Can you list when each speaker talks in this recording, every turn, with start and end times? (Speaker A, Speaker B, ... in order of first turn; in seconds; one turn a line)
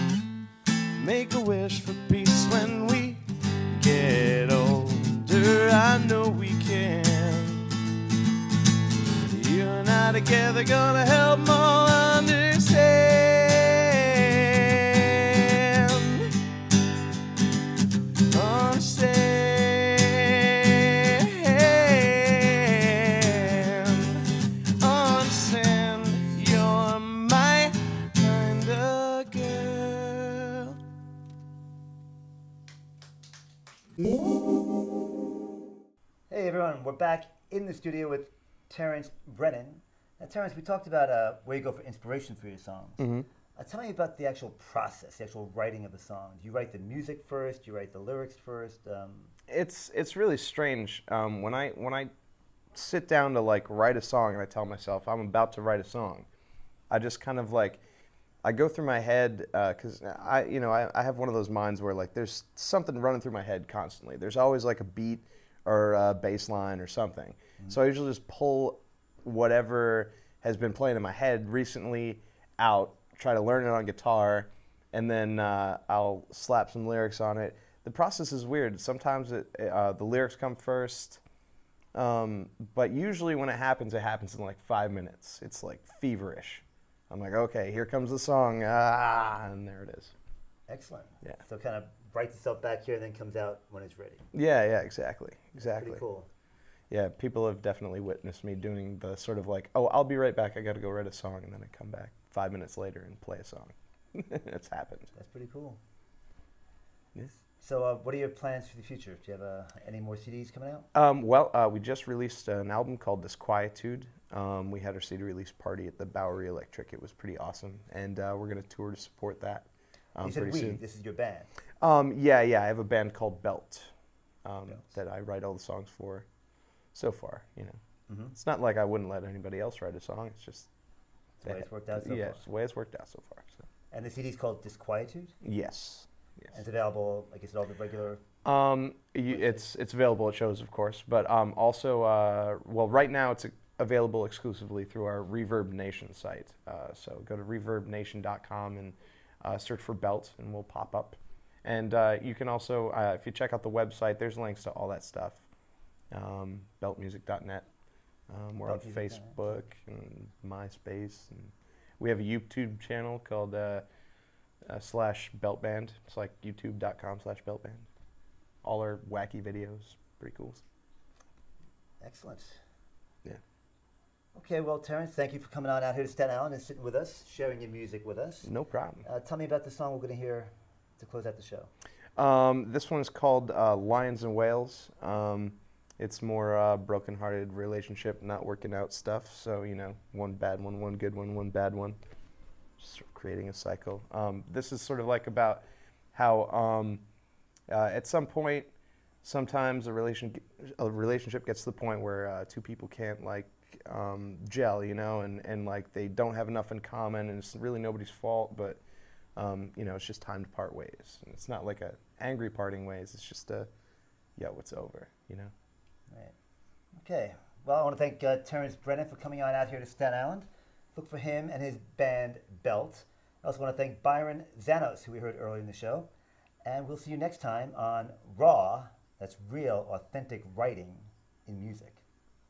Speaker A: 1.0-7.8
Speaker A: 9.2-16.3
Speaker A: 18.3-24.3
Speaker A: 24.8-30.8
Speaker B: 36.3-49.3
Speaker C: 43.0-43.3
Speaker C: 49.5-52.1
Speaker C: 52.7-56.3
Speaker C: 56.9-57.8
Speaker C: 58.4-81.2
Speaker C: 81.9-90.1
Speaker B: 90.7-94.3
Speaker C: 94.3-96.0
Speaker B: 95.6-96.3
Speaker C: 96.9-105.1
Speaker B: 105.1-105.8
Speaker B: 107.3-110.9
Speaker C: 110.9-120.8
Speaker B: 120.2-121.5
Speaker C: 121.8-123.9
Speaker C: 124.4-126.2
Speaker C: 126.9-127.8
Speaker B: 128.1-128.3
Speaker C: 128.3-130.7
Speaker B: 131.4-132.4
Speaker C: 131.4-133.7
Speaker B: 133.9-135.3
Speaker C: 135.4-136.1
Speaker B: 136.5-138.2
Speaker C: 138.4-155.4
Speaker B: 139.3-139.6
Speaker C: 156.1-157.7
Speaker C: 158.3-163.8
Speaker B: 158.6-159.5
Speaker C: 164.7-167.9
Speaker C: 168.6-170.6
Speaker B: 172.0-172.6
Speaker B: 174.3-178.5
Speaker C: 178.4-179.0
Speaker B: 179.0-181.7
Speaker C: 182.2-192.0
Speaker C: 192.8-197.0
Speaker C: 197.7-198.7
Speaker C: 199.2-208.8
Speaker C: 209.4-213.7
Speaker C: 214.4-215.5
Speaker B: 216.9-226.1
Speaker B: 226.6-232.0